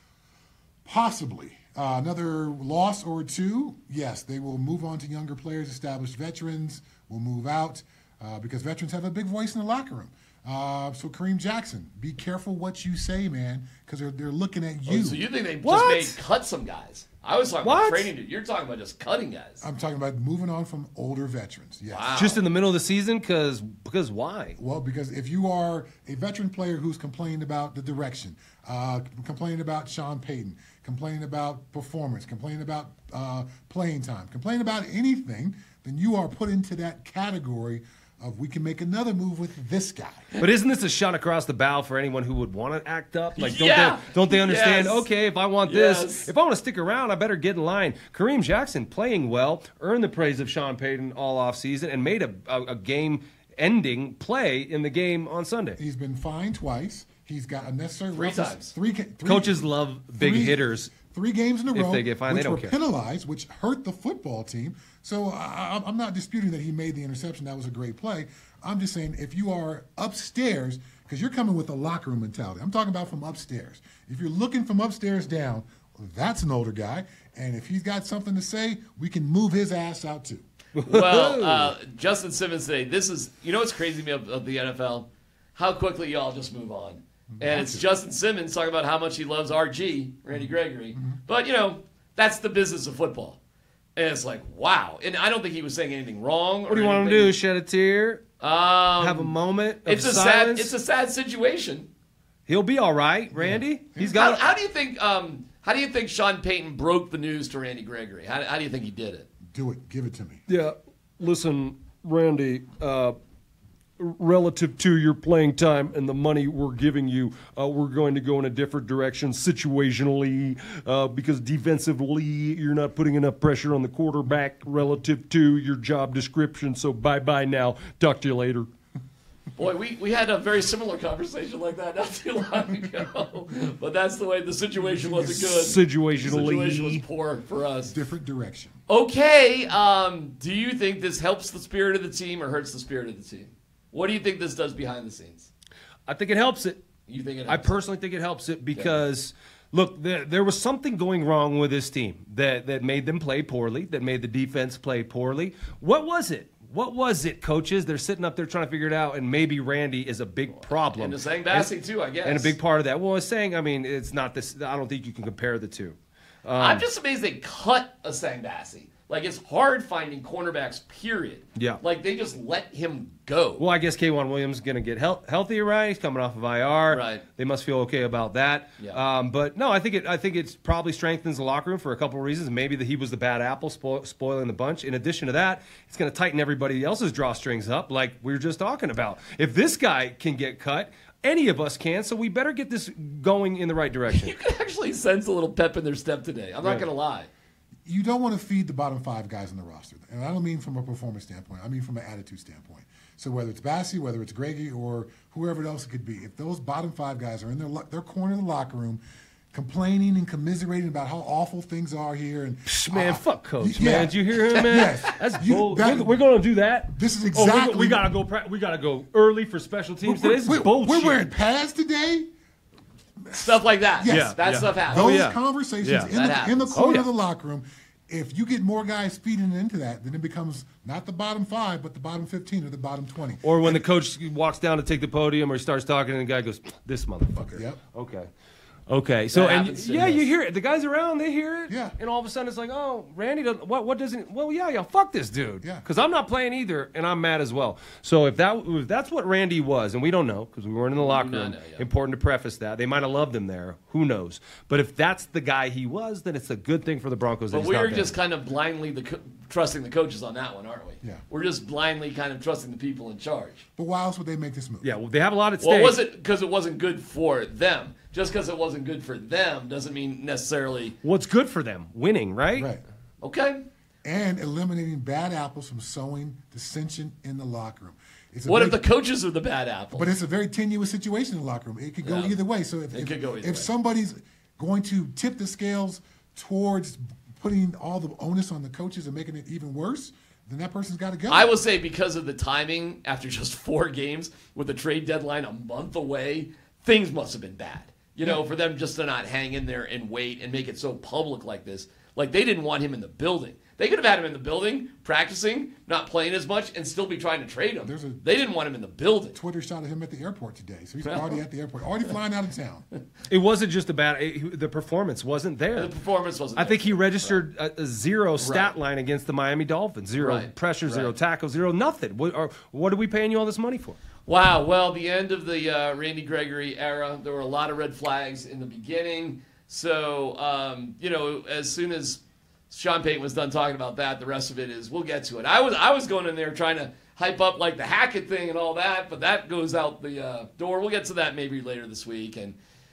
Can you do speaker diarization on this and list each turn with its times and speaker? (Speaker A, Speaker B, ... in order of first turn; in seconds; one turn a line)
Speaker A: 0.8-15.2
Speaker B: 14.8-19.6
Speaker C: 15.6-16.2
Speaker C: 17.6-18.1
Speaker A: 19.6-22.1
Speaker B: 21.9-22.4
Speaker C: 22.1-24.6
Speaker A: 24.6-40.3
Speaker C: 40.4-55.8
Speaker B: 43.4-45.1
Speaker B: 45.6-46.3
Speaker A: 55.8-80.4
Speaker B: 58.1-58.7
Speaker C: 59.2-60.9
Speaker C: 61.7-62.7
Speaker C: 80.7-81.7
Speaker B: 80.8-93.4
Speaker A: 87.3-87.8
Speaker A: 90.3-91.2
Speaker B: 94.0-97.3
Speaker C: 96.7-98.2
Speaker B: 98.4-99.3
Speaker C: 99.0-100.7
Speaker B: 99.8-101.9
Speaker C: 102.5-104.5
Speaker A: 103.3-104.1
Speaker B: 104.0-109.3
Speaker A: 109.5-110.4
Speaker C: 110.5-113.2
Speaker C: 114.0-128.7
Speaker B: 129.6-137.9
Speaker A: 134.8-135.8
Speaker C: 135.5-137.0
Speaker A: 137.9-138.8
Speaker B: 138.9-145.5
Speaker C: 146.1-146.8
Speaker B: 147.1-147.8
Speaker C: 147.5-161.7
Speaker B: 148.7-149.0
Speaker B: 160.8-162.6
Speaker C: 162.2-166.8
Speaker B: 166.6-173.6
Speaker C: 171.6-171.8
Speaker C: 173.6-194.3
Speaker B: 176.9-177.2
Speaker B: 194.1-197.3
Speaker C: 196.6-196.9
Speaker A: 197.8-209.0
Speaker A: 209.5-216.2
Speaker C: 212.7-221.2
Speaker A: 216.9-218.1
Speaker A: 220.0-222.3
Speaker A: 223.3-233.8
Speaker B: 223.3-225.3
Speaker C: 224.1-226.1
Speaker B: 225.9-226.8
Speaker C: 226.7-227.1
Speaker C: 233.4-238.3
Speaker A: 237.5-237.8
Speaker C: 238.9-258.1
Speaker B: 239.3-240.3
Speaker A: 241.7-241.9
Speaker B: 250.9-251.9
Speaker B: 257.5-263.6
Speaker A: 263.8-264.9
Speaker C: 264.8-266.0
Speaker B: 265.6-271.0
Speaker C: 271.0-272.7
Speaker A: 272.5-272.8
Speaker B: 273.2-273.6
Speaker A: 274.0-278.8
Speaker B: 278.4-280.1
Speaker A: 279.9-291.6
Speaker B: 282.0-282.4
Speaker B: 282.9-283.7
Speaker B: 291.3-309.4
Speaker A: 307.8-308.2
Speaker A: 309.3-312.9
Speaker B: 311.1-311.4
Speaker C: 313.3-315.9
Speaker B: 315.7-317.4
Speaker C: 316.6-324.0
Speaker B: 318.4-318.7
Speaker B: 320.2-321.1
Speaker B: 324.2-342.6